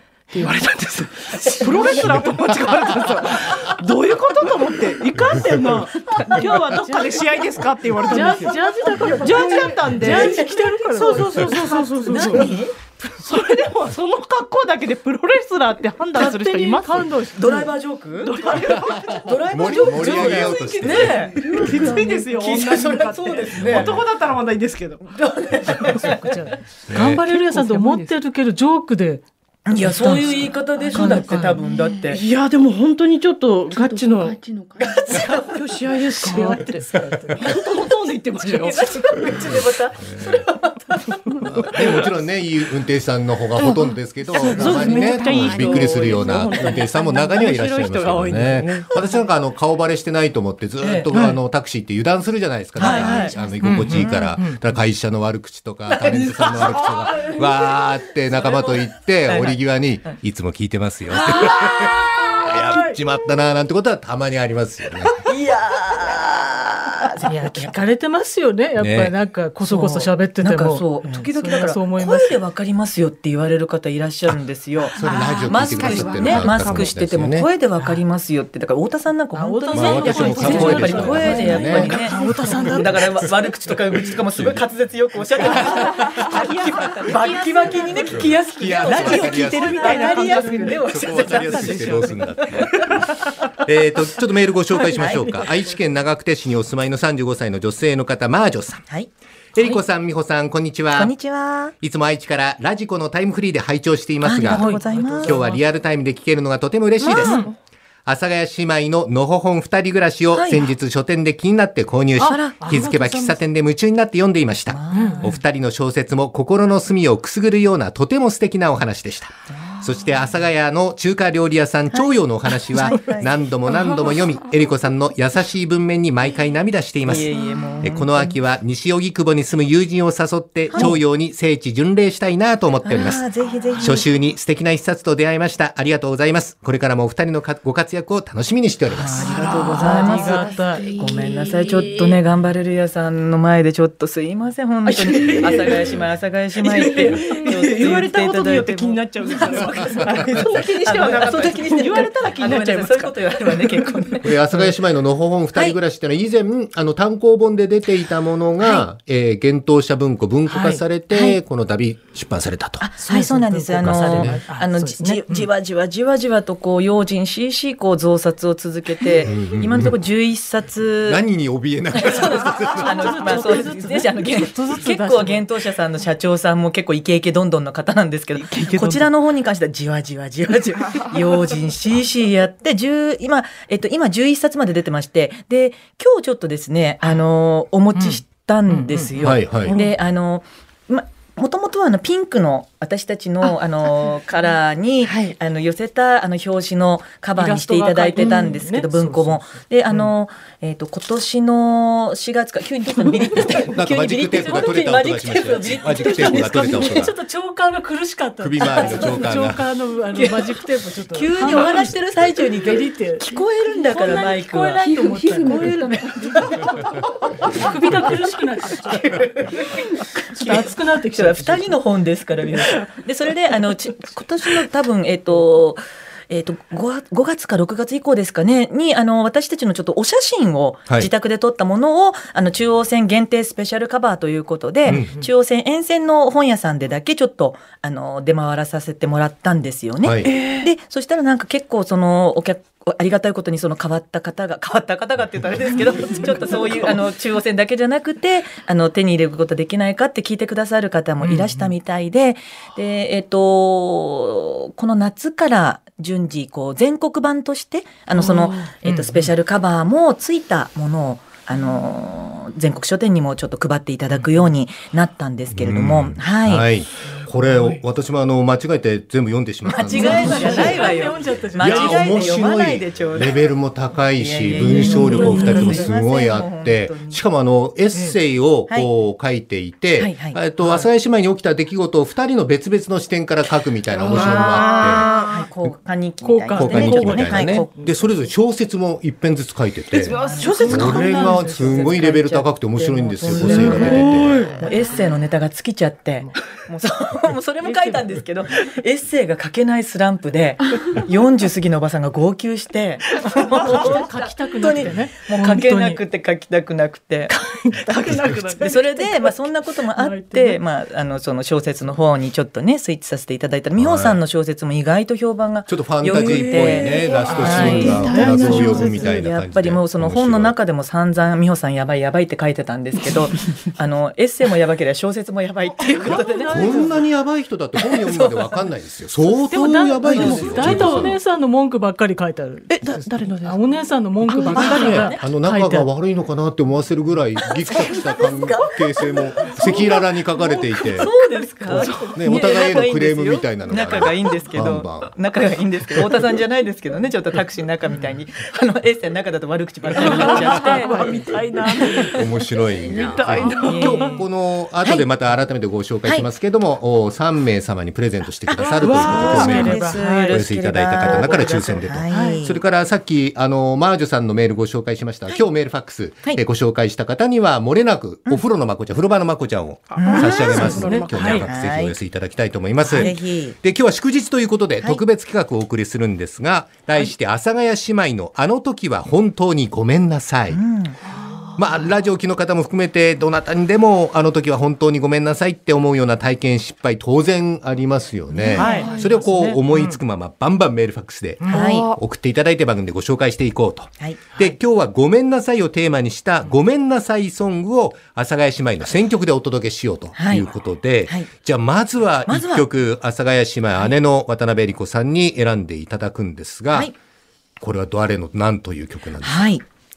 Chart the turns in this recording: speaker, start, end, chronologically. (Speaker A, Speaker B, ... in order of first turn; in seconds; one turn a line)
Speaker A: 0.3-10.5
Speaker B: 1.3-2.2
Speaker C: 1.7-2.1
Speaker C: 6.8-7.2
Speaker C: 8.0-12.6
Speaker B: 10.0-12.7
Speaker A: 13.0-17.1
Speaker C: 16.1-17.7
Speaker B: 17.4-24.0
Speaker A: 18.2-19.2
Speaker D: 19.5-21.1
Speaker C: 19.9-21.3
Speaker A: 21.4-26.0
Speaker E: 21.7-22.3
Speaker D: 23.5-24.0
Speaker B: 25.1-26.3
Speaker C: 25.9-31.6
Speaker D: 26.9-27.2
Speaker A: 27.1-28.2
Speaker B: 29.7-32.2
Speaker E: 30.2-32.1
Speaker A: 32.1-34.4
Speaker E: 33.7-35.3
Speaker B: 34.8-35.5
Speaker A: 35.0-39.3
Speaker C: 36.2-37.4
Speaker B: 38.4-41.1
Speaker D: 39.5-40.4
Speaker D: 41.5-65.1
Speaker A: 44.3-49.1
Speaker E: 44.4-45.8
Speaker B: 44.5-46.3
Speaker B: 50.8-51.1
Speaker A: 51.1-51.4
Speaker B: 52.8-54.4
Speaker E: 52.8-53.9
Speaker A: 52.9-53.4
Speaker C: 53.6-54.6
Speaker A: 56.0-57.5
Speaker B: 59.2-60.1
Speaker B: 61.4-61.8
Speaker C: 62.0-63.0
Speaker B: 65.3-67.8
Speaker C: 67.3-72.4
Speaker D: 68.8-69.2
Speaker B: 69.6-92.6
Speaker D: 75.0-77.5
Speaker A: 75.0-75.4
Speaker E: 75.8-76.4
Speaker A: 76.5-76.9
Speaker C: 79.3-83.2
Speaker D: 79.7-82.0
Speaker A: 80.0-81.1
Speaker D: 84.0-84.6
Speaker A: 85.4-93.1
Speaker D: 85.7-86.3
Speaker D: 88.2-90.0
Speaker D: 90.9-93.0
Speaker D: 93.6-98.9
Speaker C: 94.8-95.3
Speaker B: 95.0-95.4
Speaker D: 99.5-101.2
Speaker B: 100.9-101.8
Speaker D: 101.8-107.5
Speaker B: 104.2-105.4
Speaker C: 104.5-105.6
Speaker C: 107.0-107.5
Speaker B: 107.1-107.5
Speaker D: 108.1-127.3
Speaker B: 110.3-110.7
Speaker B: 112.2-112.8
Speaker C: 112.2-113.4
Speaker B: 114.7-115.4
Speaker C: 114.9-115.3
Speaker B: 119.5-120.2
Speaker B: 121.9-123.4
Speaker B: 127.0-128.4
Speaker E: 127.3-127.7
Speaker D: 127.8-133.3
Speaker B: 130.7-131.0
Speaker B: 132.8-134.1
Speaker D: 133.8-139.3
Speaker B: 138.9-154.4
Speaker E: 139.2-141.9
Speaker A: 139.2-140.2
Speaker C: 139.6-140.9
Speaker A: 141.9-142.2
Speaker A: 144.8-146.1
Speaker A: 146.6-153.9
Speaker E: 147.1-147.6
Speaker D: 154.2-162.9
Speaker B: 155.5-155.8
Speaker B: 158.6-158.9
Speaker C: 160.5-160.8
Speaker B: 161.1-161.4
Speaker B: 162.8-171.3
Speaker C: 163.0-165.5
Speaker D: 163.8-164.4
Speaker D: 169.2-170.0
Speaker D: 171.1-173.4
Speaker B: 171.9-207.1
Speaker C: 172.7-175.5
Speaker A: 178.3-179.1
Speaker C: 187.9-189.4
Speaker D: 189.2-189.8
Speaker A: 189.6-190.0
Speaker A: 195.0-195.3
Speaker C: 197.4-200.1
Speaker E: 198.2-198.6
Speaker A: 203.3-203.6
Speaker D: 203.7-207.1
Speaker C: 205.9-213.3
Speaker A: 206.2-206.6
Speaker D: 208.4-209.7
Speaker B: 208.7-209.0
Speaker B: 210.1-210.6
Speaker B: 211.1-216.7
Speaker E: 213.3-216.7
Speaker C: 214.9-216.8
Speaker C: 217.5-221.8
Speaker B: 218.8-266.7
Speaker C: 234.9-235.3
Speaker D: 240.0-240.3
Speaker A: 240.3-240.7
Speaker C: 251.2-251.8
Speaker A: 258.2-258.6
Speaker C: 258.7-259.3
Speaker C: 264.1-264.5
Speaker D: 265.5-270.9
Speaker C: 267.3-267.8
Speaker B: 269.6-273.5
Speaker C: 269.9-272.4
Speaker D: 271.6-285.1
Speaker B: 274.1-277.2
Speaker C: 274.7-275.9
Speaker B: 278.7-278.9
Speaker B: 280.0-280.9
Speaker A: 284.0-285.5
Speaker B: 284.2-287.7
Speaker C: 286.2-288.2
Speaker D: 286.6-294.4
Speaker A: 289.9-291.3
Speaker B: 290.0-307.3
Speaker C: 290.4-292.1
Speaker C: 293.1-294.1
Speaker A: 293.8-294.7
Speaker C: 297.6-298.1
Speaker C: 303.6-306.0
Speaker C: 307.3-310.6
Speaker A: 307.8-309.1
Speaker B: 308.6-327.0
Speaker D: 313.8-314.2
Speaker D: 315.7-320.6
Speaker A: 316.1-318.7
Speaker E: 316.8-319.1
Speaker C: 317.1-319.1
Speaker C: 325.8-326.7
Speaker D: 326.1-331.2
Speaker B: 328.0-328.6
Speaker C: 329.3-335.9
Speaker B: 330.1-331.1
Speaker A: 332.8-335.1
Speaker B: 334.5-335.3
Speaker D: 335.1-341.1
Speaker C: 337.5-342.1
Speaker B: 341.0-351.0
Speaker D: 341.7-345.1
Speaker A: 341.7-342.6
Speaker A: 350.0-354.2
Speaker C: 350.8-351.1
Speaker D: 352.1-380.6
Speaker B: 353.6-354.2
Speaker B: 354.8-355.1
Speaker B: 356.0-356.3
Speaker B: 358.5-362.6
Speaker A: 358.6-360.0
Speaker C: 359.3-360.4
Speaker C: 361.1-362.4
Speaker A: 369.9-371.2
Speaker B: 369.9-372.0
Speaker C: 371.1-371.5
Speaker B: 372.9-373.6
Speaker B: 380.5-381.0
Speaker C: 381.1-381.8
Speaker D: 381.6-406.9
Speaker B: 388.3-388.8
Speaker E: 388.5-389.2
Speaker A: 388.6-389.0
Speaker C: 388.6-390.0
Speaker C: 391.4-391.7
Speaker B: 391.5-391.9
Speaker E: 391.6-392.0
Speaker B: 394.0-394.4
Speaker B: 400.1-400.5
Speaker B: 402.3-402.7
Speaker D: 407.6-409.5
Speaker B: 409.2-409.6